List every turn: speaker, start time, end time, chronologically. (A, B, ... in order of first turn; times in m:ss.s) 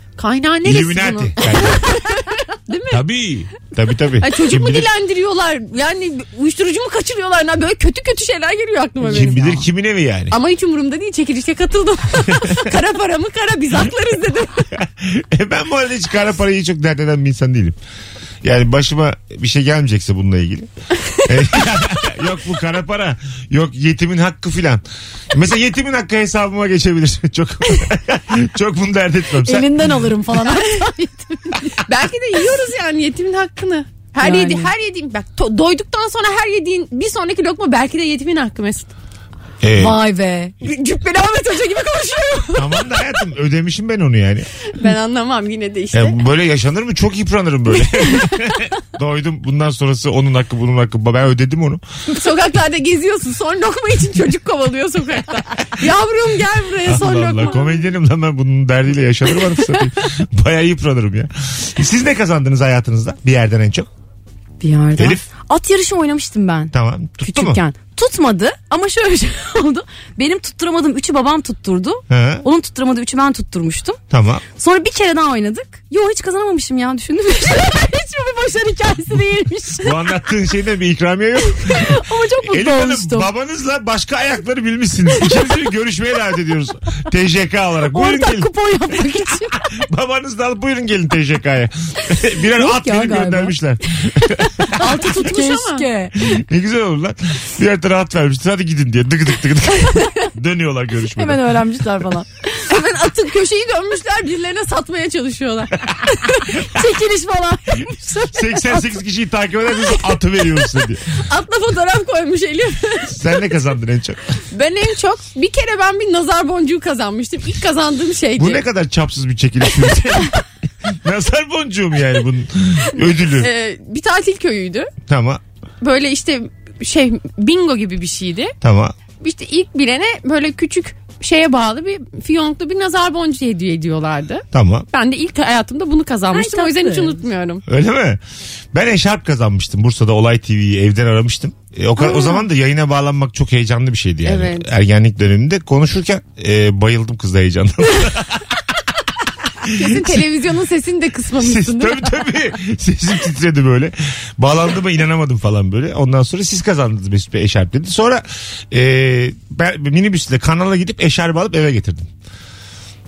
0:00.2-0:03.0 A
0:00.6-0:02.0 B
0:02.9-0:04.9 B
0:04.2-0:09.4 A
0:09.0-0:10.4 B
0:09.1-0:09.6 C
0:10.3-0:14.7 A
0:14.8-0:17.8 B
0:18.4-0:20.7 B
0:21.2-0:29.9 B
0:29.4-0:31.8 C
0:30.4-0:30.9 A
0:31.8-0:38.9 A
0:34.2-0:34.7 C
0:39.6-0:40.0 B
0:39.8-0:40.6 C
0:40.6-0:43.0 A
0:42.6-0:44.5 B
0:44.7-0:46.2 A
0:45.9-0:51.8 B
0:52.1-0:57.8 A
0:56.8-1:03.9 B
1:04.6-1:14.0 C
1:05.0-1:05.2 B
1:06.7-1:07.6 B
1:12.1-1:12.4 B
1:14.1-1:14.4 B
1:14.6-1:20.0 C
1:19.8-1:28.5 B
1:21.6-1:23.3 C
1:27.9-1:29.6 C
1:29.7-1:34.7 B
1:32.5-1:33.6 C
1:34.6-1:36.2 C
1:34.8-1:35.9 A
1:36.2-1:41.5 B
1:41.2-1:42.5 C
1:42.6-1:46.6 A
1:46.5-1:48.8 C
1:48.3-1:51.0 B
1:51.1-1:53.2 A
1:53.1-1:54.2 B
1:54.5-1:58.6 A
1:58.4-2:03.5 B
2:03.0-2:04.9 A
2:05.1-2:05.4 B
2:05.8-2:08.5 A
2:08.6-2:09.0 B
2:09.2-2:17.6 A
2:14.5-2:14.9 B
2:16.3-2:17.2 C
2:17.7-2:18.2 B
2:18.7-2:28.6 B
2:24.3-2:24.7 A
2:29.6-2:30.2 B
2:29.7-2:32.2 A
2:31.4-2:42.1 B